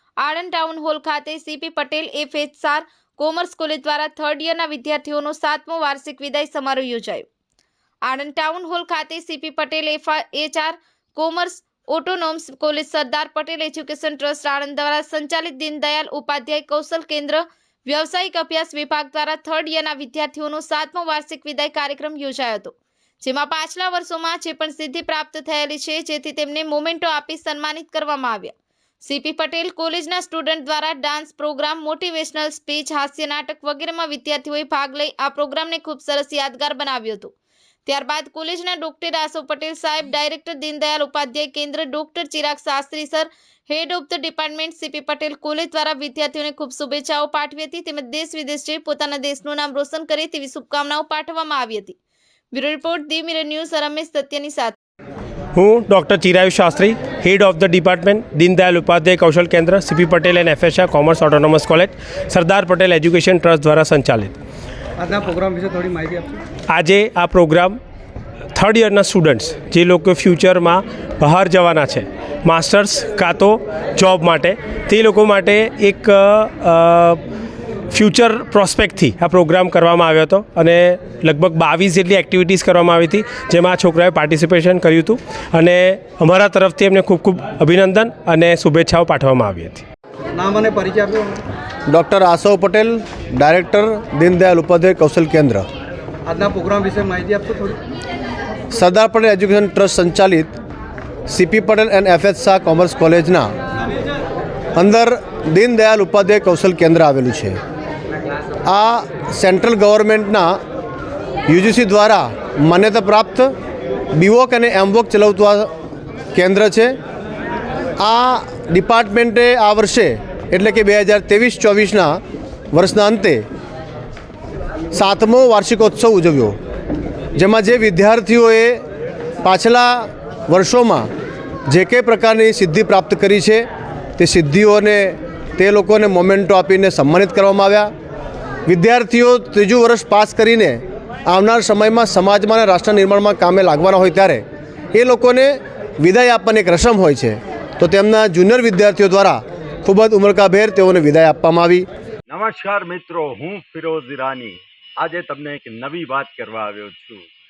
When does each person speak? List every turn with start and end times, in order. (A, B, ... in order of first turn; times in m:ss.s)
0:00.2-0:07.3 A
0:08.0-0:37.3 A
0:37.9-0:52.0 A
0:52.5-0:54.8 A
0:55.6-1:04.3 B
1:05.0-1:06.4 C
1:06.7-1:07.8 B
1:08.6-1:17.2 B
1:17.9-1:29.8 B
1:30.3-1:31.4 C
1:31.9-1:35.7 D
1:36.3-1:37.8 C
1:38.7-1:40.5 D
1:41.3-1:43.5 D
1:44.8-1:47.6 D
1:48.7-1:50.6 D
1:51.5-1:53.5 D
1:54.1-1:55.7 D
1:56.3-1:57.0 D
1:58.0-2:02.2 D
2:02.7-2:03.4 D
2:04.9-2:06.6 D
2:07.3-2:08.8 D
2:09.4-2:11.1 D
2:11.7-2:13.7 D
2:14.2-2:17.9 D
2:18.7-2:31.9 D
2:32.3-2:37.3 E